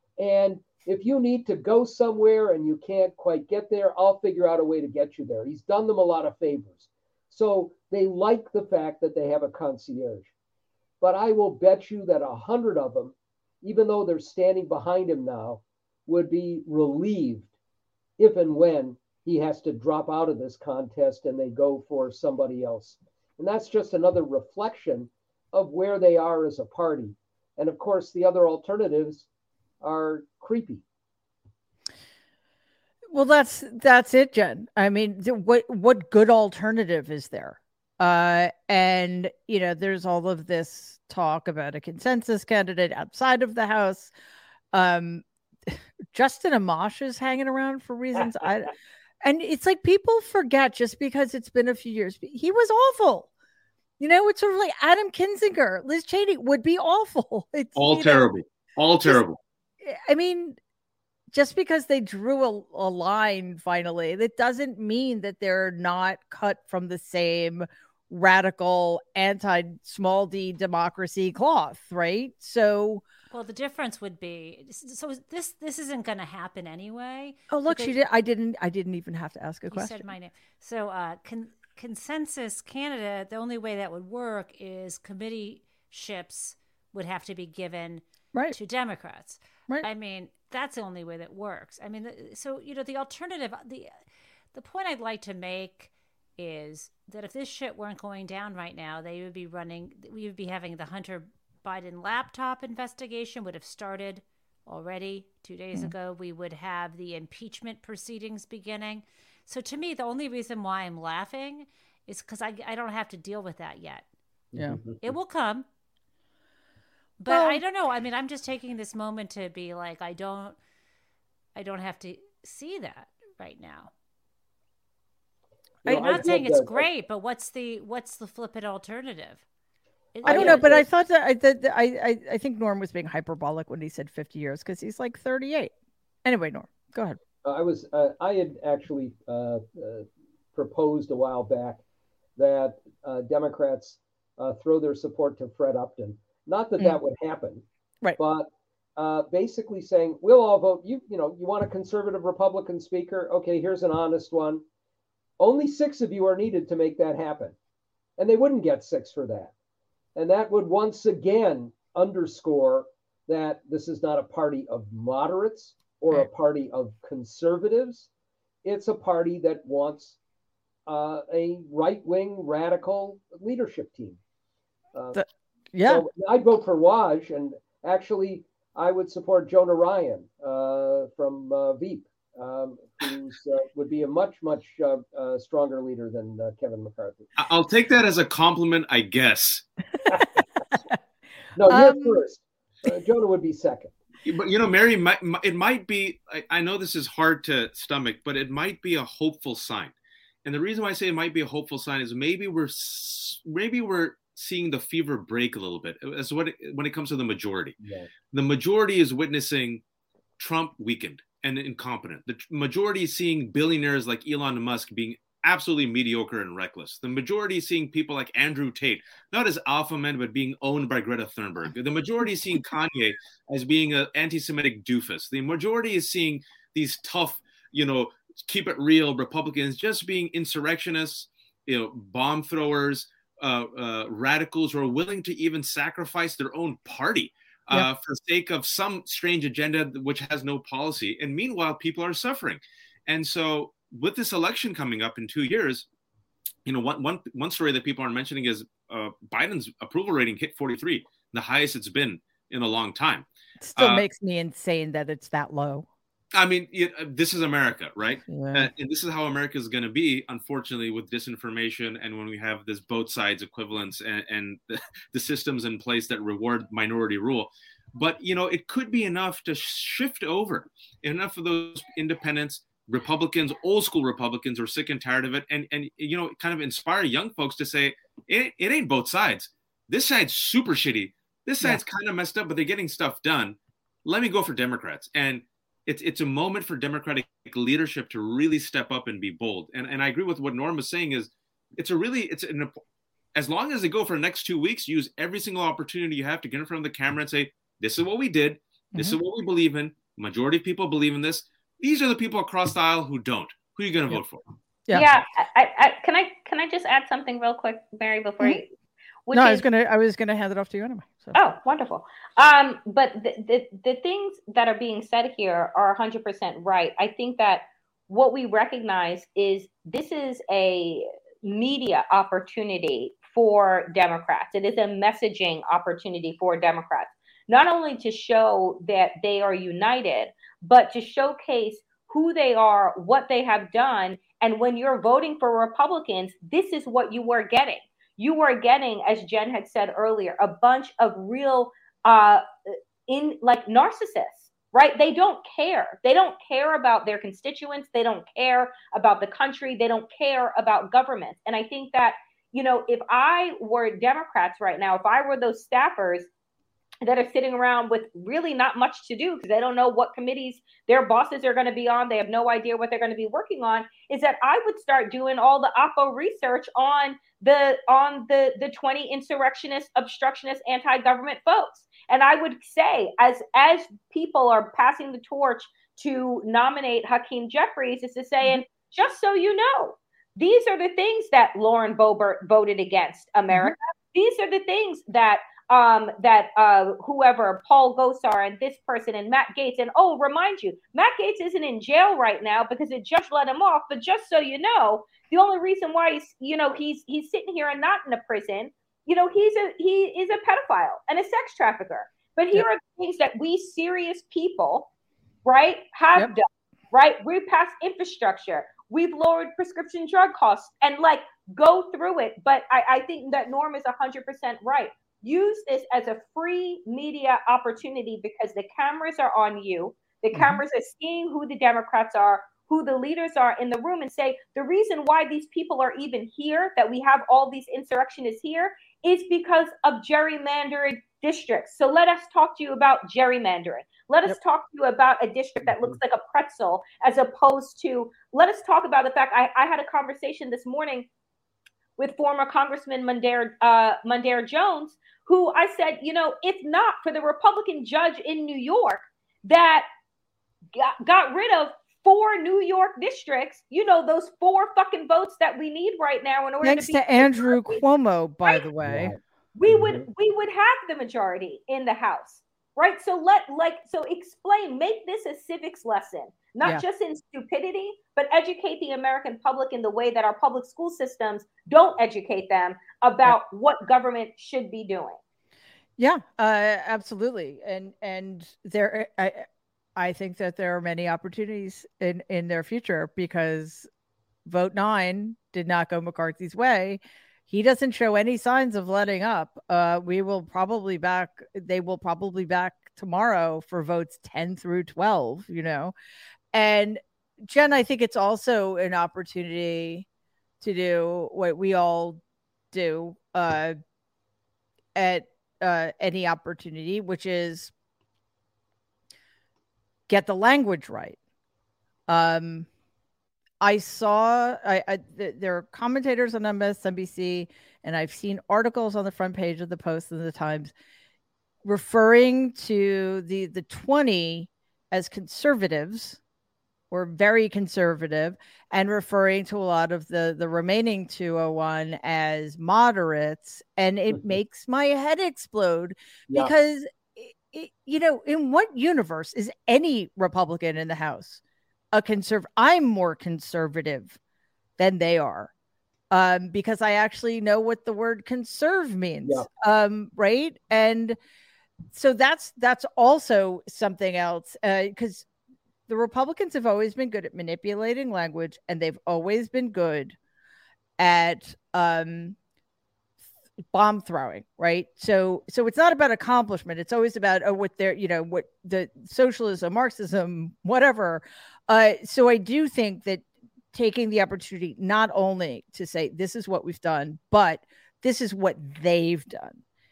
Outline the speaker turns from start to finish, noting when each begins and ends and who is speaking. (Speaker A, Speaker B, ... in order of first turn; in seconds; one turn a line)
Speaker A: 0.2-10.3
Speaker A: 11.0-17.5
Speaker A: 18.2-29.3
Speaker A: 29.8-30.8
Speaker B: 33.1-44.1
Speaker B: 44.7-48.7
Speaker B: 49.2-53.3
Speaker B: 54.0-58.3
Speaker C: 57.8-59.4
Speaker B: 59.9-60.6
Speaker B: 61.3-73.0
Speaker D: 73.3-78.0
Speaker B: 77.5-80.1
Speaker D: 79.7-93.9
Speaker D: 94.5-114.1
Speaker A: 114.5-115.0
Speaker D: 115.0-115.7
Speaker D: 117.2-120.6
Speaker B: 117.3-117.6
Speaker D: 121.5-123.9
Speaker A: 125.8-126.9
Speaker D: 125.9-129.4
Speaker D: 130.2-130.7
Speaker A: 130.2-130.9
Speaker B: 130.2-135.7
Speaker B: 136.2-137.2
Speaker A: 137.4-141.8
Speaker A: 142.4-147.7
Speaker A: 148.2-154.6
Speaker A: 155.4-157.6
Speaker A: 158.2-159.5
Speaker A: 160.2-168.1
Speaker A: 168.6-170.2
Speaker A: 170.9-174.2
Speaker A: 174.9-175.2
Speaker B: 175.1-176.0
Speaker A: 175.8-187.3
Speaker C: 187.4-189.7
Speaker A: 190.1-190.4
Speaker A: 191.6-193.9
Speaker B: 191.7-192.2
Speaker C: 194.2-199.9
Speaker C: 200.4-207.8
Speaker A: 207.8-208.1
Speaker C: 208.3-209.8
Speaker C: 210.4-245.9
Speaker C: 246.7-254.1
Speaker B: 253.6-255.9
Speaker C: 256.4-292.8
Speaker B: 258.3-258.7
Speaker C: 293.4-304.4
Speaker E: 304.9-308.7
Speaker E: 309.3-309.6
Speaker B: 309.3-311.4
Speaker E: 311.4-342.4
Speaker E: 343.1-356.3
Speaker E: 357.0-404.9
Speaker E: 405.4-441.1
Speaker B: 420.4-420.6
Speaker E: 442.0-449.9
Speaker E: 450.8-457.8
Speaker B: 456.6-459.1
Speaker A: 458.8-460.1
Speaker E: 459.6-475.2
Speaker B: 476.0-483.9
Speaker B: 484.5-495.9
Speaker B: 496.5-500.1
Speaker B: 500.6-502.2
Speaker B: 502.7-503.8
Speaker B: 504.9-507.7
Speaker B: 510.1-511.2
Speaker B: 512.1-512.7
Speaker B: 513.6-520.7
Speaker B: 521.6-526.2
Speaker B: 526.9-541.4
Speaker A: 534.1-534.4
Speaker B: 541.9-544.2
Speaker B: 544.8-545.5
Speaker B: 546.1-551.2
Speaker B: 551.9-555.3
Speaker B: 555.9-560.2
Speaker B: 561.0-562.4
Speaker B: 563.7-579.6